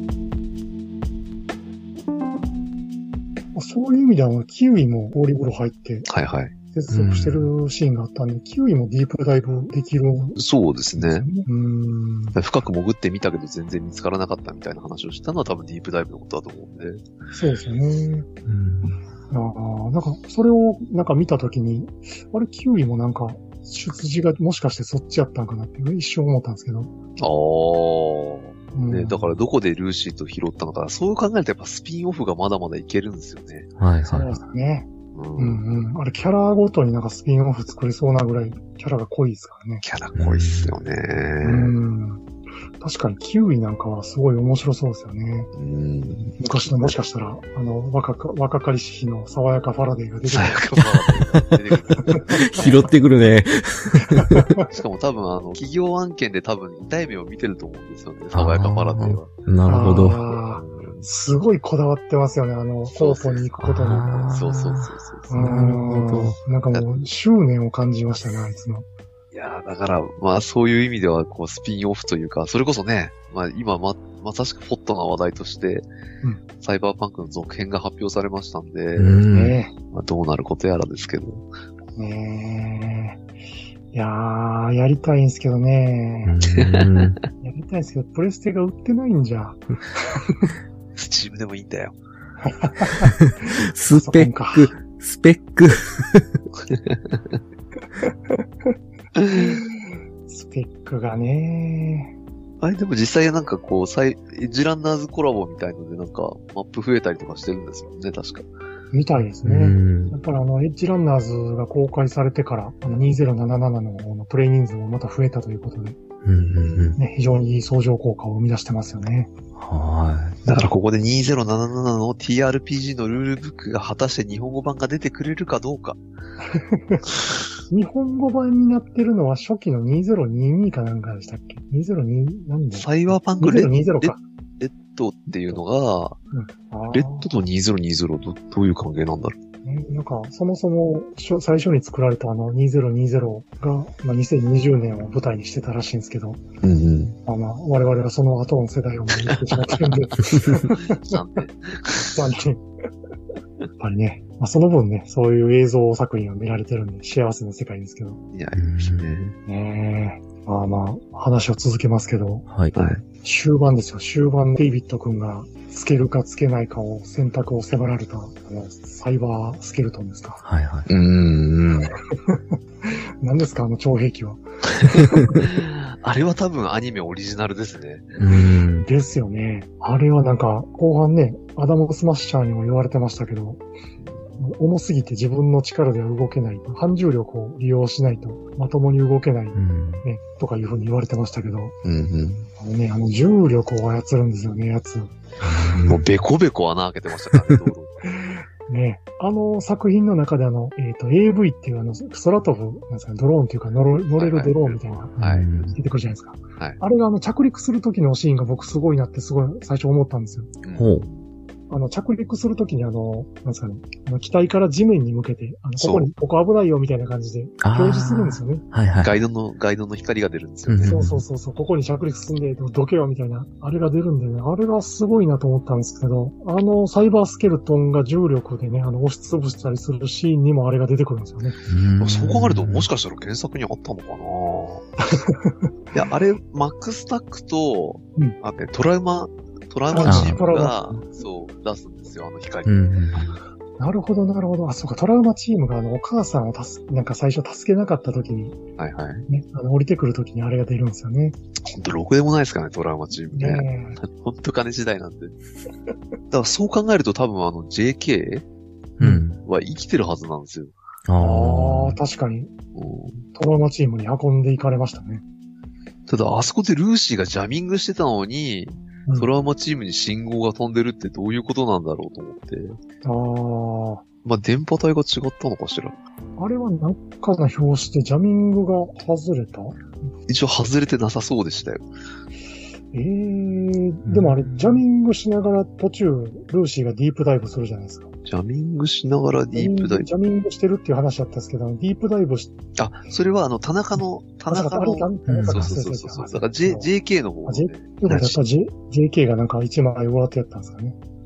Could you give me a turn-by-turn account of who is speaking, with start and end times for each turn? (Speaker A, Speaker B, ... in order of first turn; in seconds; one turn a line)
Speaker A: 3.5-6.1
Speaker B: 6.1-6.5
Speaker A: 6.7-10.4
Speaker C: 6.9-7.5
Speaker B: 10.4-11.3
Speaker A: 11.0-12.4
Speaker B: 12.4-17.0
Speaker A: 17.3-18.3
Speaker C: 18.5-19.0
Speaker A: 19.3-26.9
Speaker B: 27.2-33.7
Speaker A: 28.8-29.3
Speaker C: 33.8-34.4
Speaker A: 34.1-39.8
Speaker B: 35.1-35.6
Speaker B: 39.8-41.7
Speaker C: 40.2-40.8
Speaker A: 41.4-42.2
Speaker A: 42.8-45.5
Speaker B: 45.5-46.9
Speaker A: 46.4-50.6
Speaker B: 50.3-52.9
Speaker C: 52.5-54.5
Speaker A: 54.1-54.7
Speaker B: 54.6-61.1
Speaker C: 58.3-60.3
Speaker A: 59.7-64.3
Speaker B: 62.9-63.5
Speaker C: 63.6-66.4
Speaker B: 64.0-65.3
Speaker A: 65.3-68.9
Speaker B: 69.3-75.9
Speaker B: 76.6-79.2
Speaker C: 79.0-79.6
Speaker A: 79.3-79.7
Speaker B: 79.9-81.5
Speaker A: 82.0-83.2
Speaker A: 83.9-86.3
Speaker C: 86.2-87.2
Speaker B: 86.5-87.0
Speaker A: 87.4-90.5
Speaker B: 91.0-92.0
Speaker A: 92.5-93.1
Speaker C: 93.2-96.4
Speaker A: 93.9-94.8
Speaker B: 96.7-97.2
Speaker B: 99.2-99.6
Speaker A: 99.4-102.1
Speaker B: 102.6-108.5
Speaker A: 108.9-116.0
Speaker C: 109.4-110.2
Speaker C: 116.2-117.0
Speaker B: 116.5-117.0
Speaker A: 117.0-119.3
Speaker C: 119.6-120.4
Speaker B: 120.4-126.0
Speaker A: 126.5-127.0
Speaker A: 127.7-134.2
Speaker B: 132.7-136.2
Speaker A: 136.3-137.3
Speaker B: 136.9-139.4
Speaker A: 139.6-146.4
Speaker B: 146.6-147.2
Speaker A: 147.3-151.2
Speaker B: 149.3-152.2
Speaker A: 152.0-152.6
Speaker A: 153.8-158.2
Speaker B: 158.3-159.4
Speaker C: 158.6-159.2
Speaker A: 159.5-162.5
Speaker C: 162.5-162.8
Speaker B: 162.8-163.0
Speaker A: 163.2-170.4
Speaker C: 170.4-170.9
Speaker B: 170.9-171.9
Speaker A: 172.1-175.3
Speaker C: 175.2-175.5
Speaker B: 175.4-178.2
Speaker C: 178.2-178.9
Speaker A: 178.8-183.6
Speaker A: 184.4-191.8
Speaker C: 189.6-190.1
Speaker B: 191.8-192.5
Speaker A: 192.6-195.7
Speaker C: 195.4-196.0
Speaker B: 195.8-198.0
Speaker C: 197.4-197.6
Speaker A: 198.1-205.2
Speaker B: 204.2-205.8
Speaker C: 205.2-205.8
Speaker A: 205.8-210.5
Speaker B: 210.6-211.2
Speaker C: 210.7-211.1
Speaker A: 211.7-218.6
Speaker B: 215.8-216.1
Speaker C: 217.6-219.2
Speaker B: 219.0-221.1
Speaker C: 220.7-221.2
Speaker A: 220.8-231.6
Speaker C: 231.7-232.9
Speaker B: 232.0-234.8
Speaker A: 235.1-235.7
Speaker B: 235.9-243.3
Speaker A: 239.9-241.2
Speaker C: 240.0-240.4
Speaker C: 242.7-243.3
Speaker A: 243.8-248.6
Speaker B: 248.8-249.3
Speaker A: 249.3-251.4
Speaker B: 251.7-255.3
Speaker A: 253.3-254.0
Speaker B: 256.3-258.4
Speaker C: 259.0-259.4
Speaker A: 259.0-259.3
Speaker B: 259.4-260.7
Speaker C: 261.1-262.0
Speaker A: 261.2-262.5
Speaker B: 262.8-263.3
Speaker A: 263.3-265.2
Speaker B: 266.1-272.8
Speaker A: 273.0-274.0
Speaker B: 274.2-276.0
Speaker A: 276.4-279.8
Speaker B: 280.3-281.9
Speaker A: 282.9-288.1
Speaker C: 284.1-284.8
Speaker B: 288.3-290.1
Speaker A: 289.6-292.5
Speaker B: 292.8-298.4
Speaker A: 294.5-296.9
Speaker C: 295.3-295.8
Speaker A: 297.4-301.0